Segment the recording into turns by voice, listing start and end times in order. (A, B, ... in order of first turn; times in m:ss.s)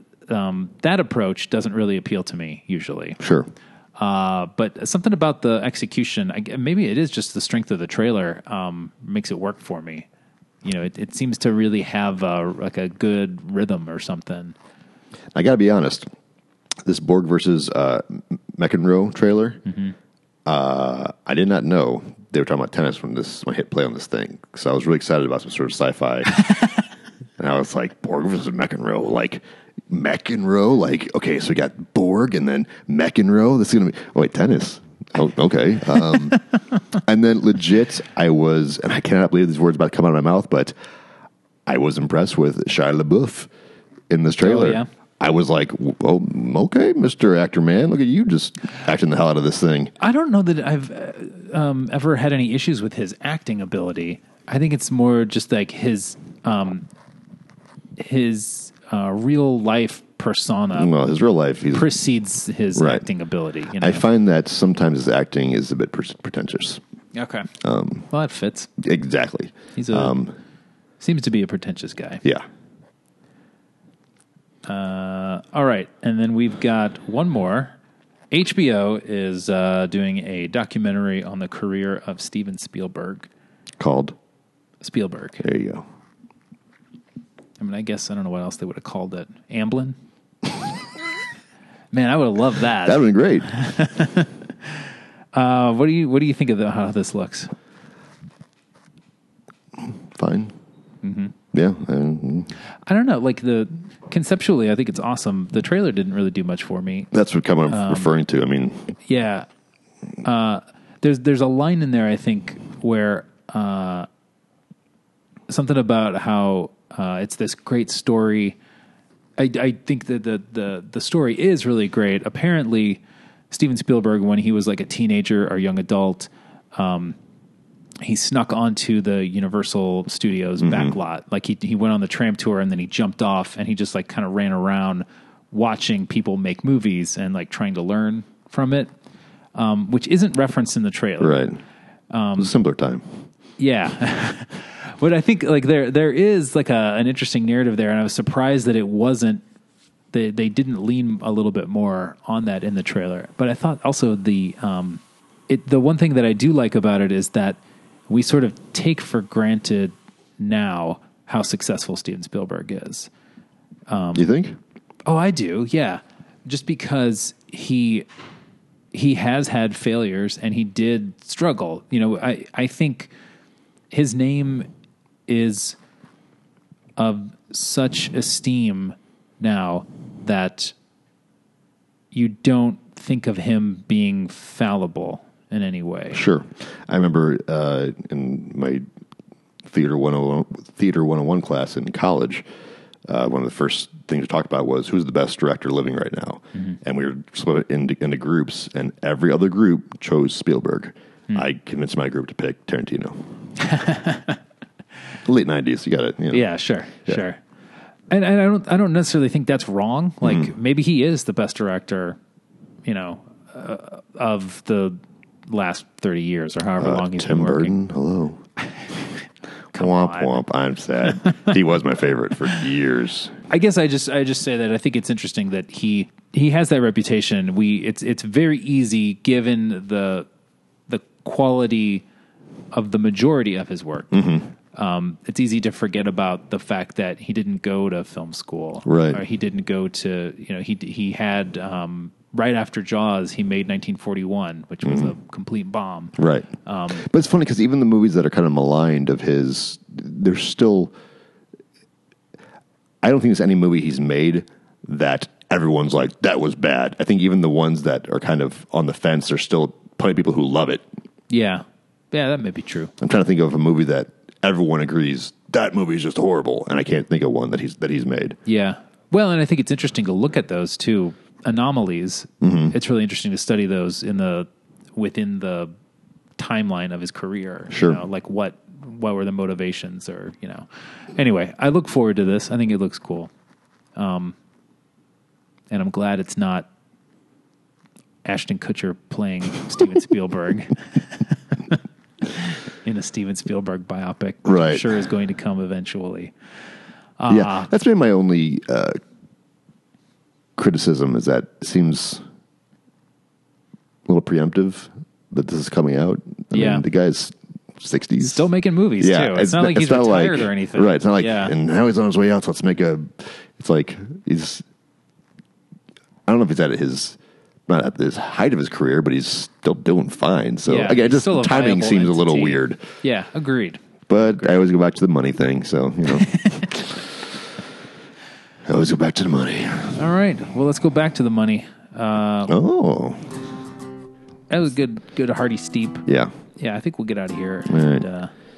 0:00.3-0:03.2 A
0:03.2-0:03.5 B
0:04.0-0:10.1 A
0:10.6-0:14.6 A
0:15.4-0:16.1 B
0:16.8-0:19.6 B
0:19.7-0:19.9 A
0:20.5-0:26.5 B
0:27.4-0:36.4 B
0:36.9-0:40.7 B
0:41.7-0:43.5 B
0:44.1-0:49.9 B
0:44.4-0:44.9 A
0:50.0-0:56.9 A
0:58.0-1:00.9 A
1:00.8-1:01.9 B
1:01.7-1:04.0 A
1:02.8-1:03.0 B
1:03.8-1:06.8 B
1:07.2-1:07.5 A
1:07.6-1:08.1 B
1:08.1-1:08.7 A
1:08.8-1:10.3 B
1:09.8-1:10.2 A
1:11.0-1:12.2 A
1:14.7-1:17.8 A
1:18.3-1:23.3 A
1:23.8-1:24.2 B
1:24.8-1:25.5 A
1:25.4-1:25.8 B
1:27.6-1:30.0 A
1:31.9-1:34.7 A
1:32.8-1:33.5 B
1:35.3-1:37.5 A
1:39.8-1:40.5 B
1:41.0-1:41.3 A
1:41.5-1:42.5 B
1:42.9-1:47.1 A
1:47.1-1:48.9 B
1:47.7-1:48.1 A
1:49.1-1:49.5 A
1:50.2-1:54.1 A
1:55.5-1:58.6 A
1:59.4-2:07.2 A
2:08.0-2:18.9 A
2:10.6-2:11.0 B
2:19.6-2:21.5 A
2:21.2-2:21.6 B
2:22.1-2:22.5 A
2:22.4-2:23.0 B
2:23.6-2:29.4 A
2:30.1-2:43.1 A
2:43.9-2:44.3 A
2:44.2-2:44.6 B
2:45.1-2:48.1 A
2:48.9-2:53.1 A
2:53.9-2:54.7 A
2:55.3-2:55.8 A
2:57.0-3:00.7 A
3:02.1-3:06.2 A
3:06.1-3:08.8 B
3:09.6-3:12.4 B
3:13.1-3:23.3 B
3:23.6-3:24.4 A
3:25.2-3:26.5 B
3:26.3-3:27.4 A
3:28.1-3:32.2 A
3:30.2-3:30.5 B
3:32.9-3:37.7 A
3:36.8-3:38.4 B
3:39.7-3:40.4 A
3:39.7-3:43.3 B
3:41.2-3:41.5 A
3:43.5-3:50.3 A
3:50.9-3:52.0 A
3:52.7-3:54.2 A
3:54.1-3:54.5 B
3:54.7-4:07.1 A
3:58.8-3:59.2 B
4:04.8-4:05.1 B
4:06.2-4:10.9 B
4:13.0-4:20.8 B
4:21.3-4:22.9 A
4:23.0-4:28.4 B
4:28.5-4:35.7 A
4:32.4-4:32.8 B
4:36.4-4:43.3 A
4:37.7-4:38.0 B
4:44.0-4:44.4 A
4:45.7-4:46.7 A
4:48.2-4:56.3 A
4:54.4-4:54.9 B
4:57.2-4:57.7 A
4:57.3-4:59.0 B
5:00.6-5:02.2 B
5:04.1-5:08.4 B
5:06.5-5:06.8 A
5:08.2-5:11.5 A
5:09.0-5:14.6 B
5:16.3-5:22.8 B
5:20.7-5:24.5 A
5:24.1-5:27.1 B
5:26.1-5:26.7 A
5:28.7-5:30.0 B
5:29.9-5:32.6 A
5:32.5-5:33.3 B
5:34.5-5:38.3 A
5:36.1-5:36.3 B
5:37.7-5:38.0 B